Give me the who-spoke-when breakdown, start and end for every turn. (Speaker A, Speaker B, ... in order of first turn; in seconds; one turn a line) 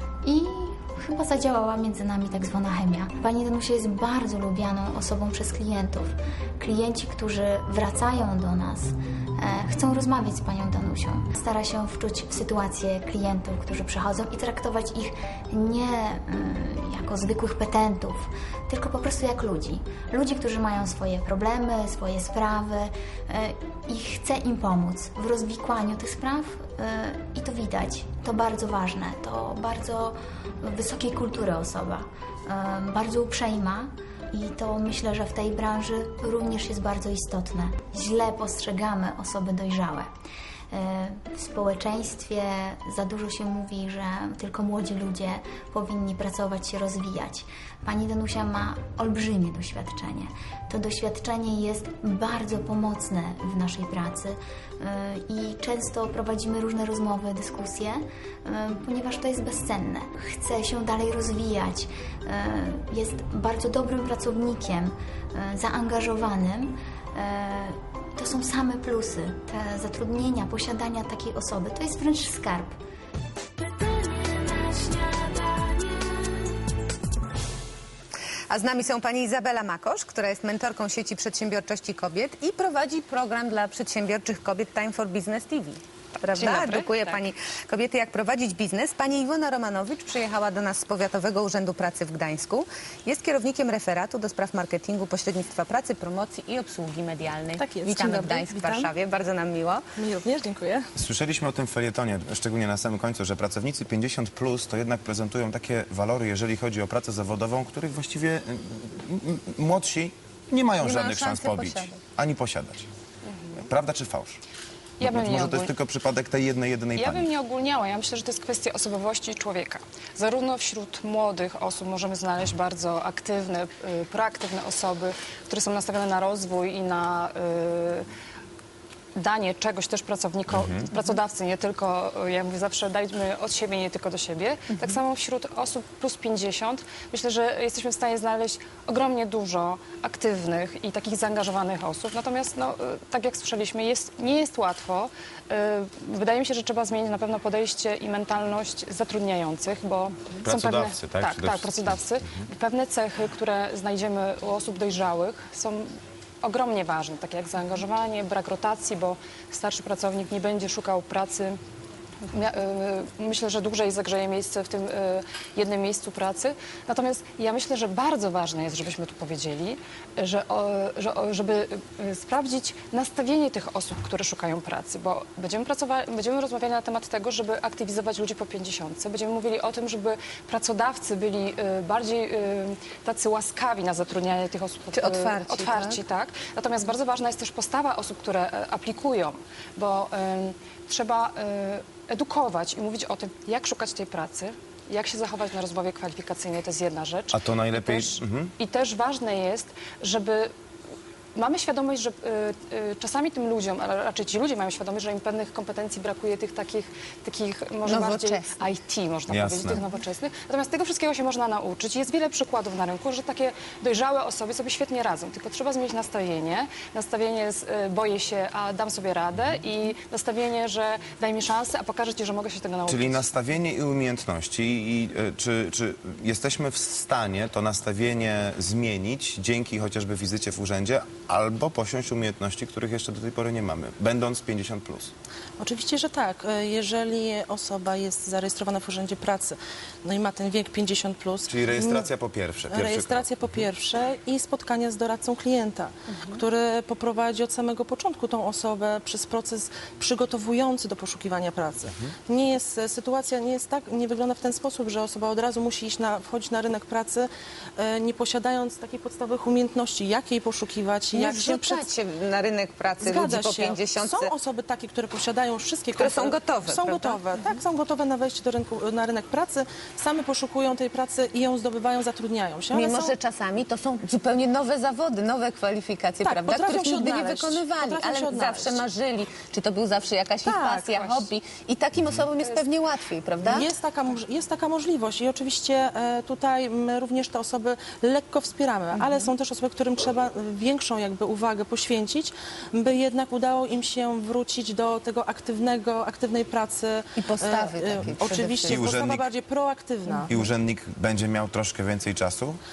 Speaker A: 0.2-40.1
Speaker A: 40.7-72.8
Speaker B: 78.5-99.8
Speaker C: 86.3-87.2
Speaker D: 97.6-98.9
Speaker D: 100.0-100.9
Speaker E: 101.0-112.9
Speaker B: 110.8-112.0
Speaker C: 113.3-113.6
Speaker E: 113.6-114.4
Speaker E: 115.0-117.3
Speaker C: 115.0-115.7
Speaker C: 116.9-128.1
Speaker C: 129.1-161.6
Speaker E: 130.6-130.9
Speaker E: 150.4-152.4
Speaker C: 162.3-200.5
Speaker B: 184.9-186.0
Speaker E: 197.3-198.5
Speaker C: 201.3-223.3
Speaker B: 207.8-208.5
Speaker E: 209.3-209.8
Speaker E: 222.9-235.1
Speaker D: 235.6-242.1
Speaker E: 241.5-243.7
Speaker D: 242.7-261.9
Speaker B: 246.1-246.4
Speaker B: 261.1-264.3
Speaker D: 263.0-273.1
Speaker B: 265.9-267.2
Speaker B: 272.7-283.7
Speaker D: 276.2-278.8
Speaker D: 280.4-280.8
Speaker C: 280.9-281.2
Speaker D: 283.4-300.4
Speaker B: 297.2-298.8
Speaker E: 298.6-299.2
Speaker E: 300.3-302.6